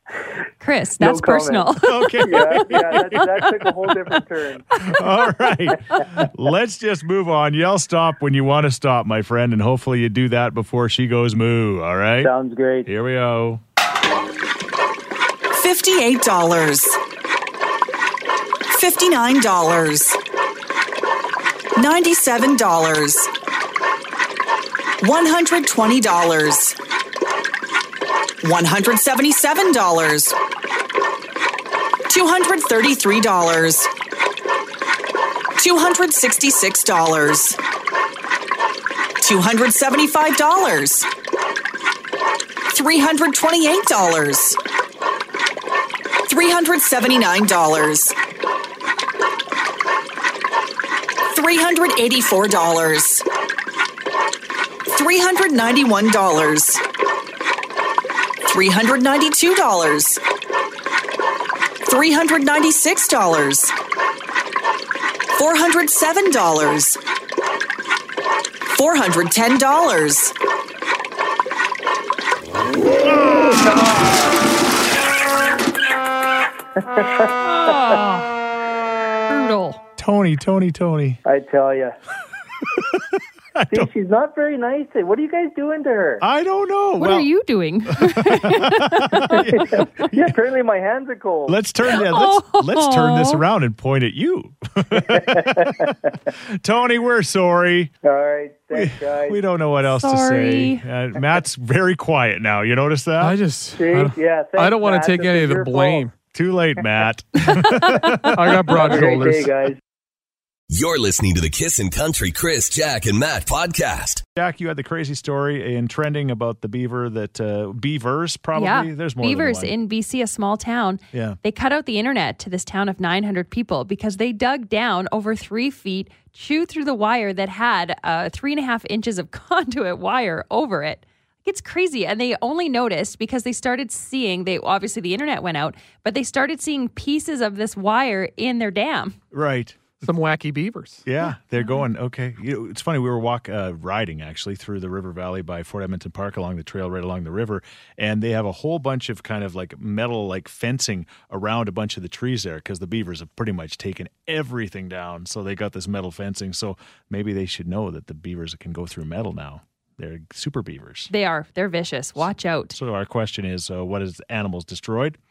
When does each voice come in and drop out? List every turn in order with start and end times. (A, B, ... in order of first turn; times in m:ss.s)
0:00.6-0:03.2 A
0:01.0-0:04.7 B
0:01.8-0:03.2 C
0:04.8-0:12.3 C
0:12.2-0:12.9 B
0:12.9-0:13.6 C
0:15.5-0:17.0 D
0:18.7-0:20.2 D
0:21.8-0:23.3 D
0:25.0-0:26.8 D
0:28.4-0:30.4 D
0:32.1-0:33.9 D
0:35.6-0:37.6 D
0:39.2-0:41.1 D
0:42.7-0:44.6 D
0:46.3-0:48.2 D
0:51.3-0:53.2 D
0:54.9-0:56.8 D
0:58.5-1:00.2 D
1:01.8-1:03.7 D
1:05.3-1:07.0 D
1:08.7-1:10.3 D
1:17.0-1:18.0 B
1:17.4-1:18.4 A
1:19.3-1:19.8 A
1:20.0-1:21.2 C
1:21.2-1:22.0 B
1:22.7-1:23.0 C
1:23.6-1:23.9 C
1:23.7-1:26.2 B
1:26.2-1:27.3 C
1:27.0-1:29.8 A
1:27.9-1:30.4 C
1:29.3-1:31.6 B
1:31.5-1:37.9 C
1:31.9-1:33.4 A
1:34.9-1:36.1 B
1:38.0-1:39.4 B
1:38.7-1:43.4 C
1:39.8-1:40.8 A
1:43.2-1:46.1 E
1:43.8-1:46.1 B
1:46.3-1:48.5 C
1:48.3-1:49.5 E
1:48.7-1:49.8 B
1:50.7-1:54.2 F
1:54.4-1:59.7 C
1:58.5-2:19.2 A
2:01.1-2:01.4 C
2:19.3-2:19.8 C
2:20.0-2:21.0 E
2:21.0-2:41.1 C
2:41.1-2:42.8 A
2:42.7-2:45.2 C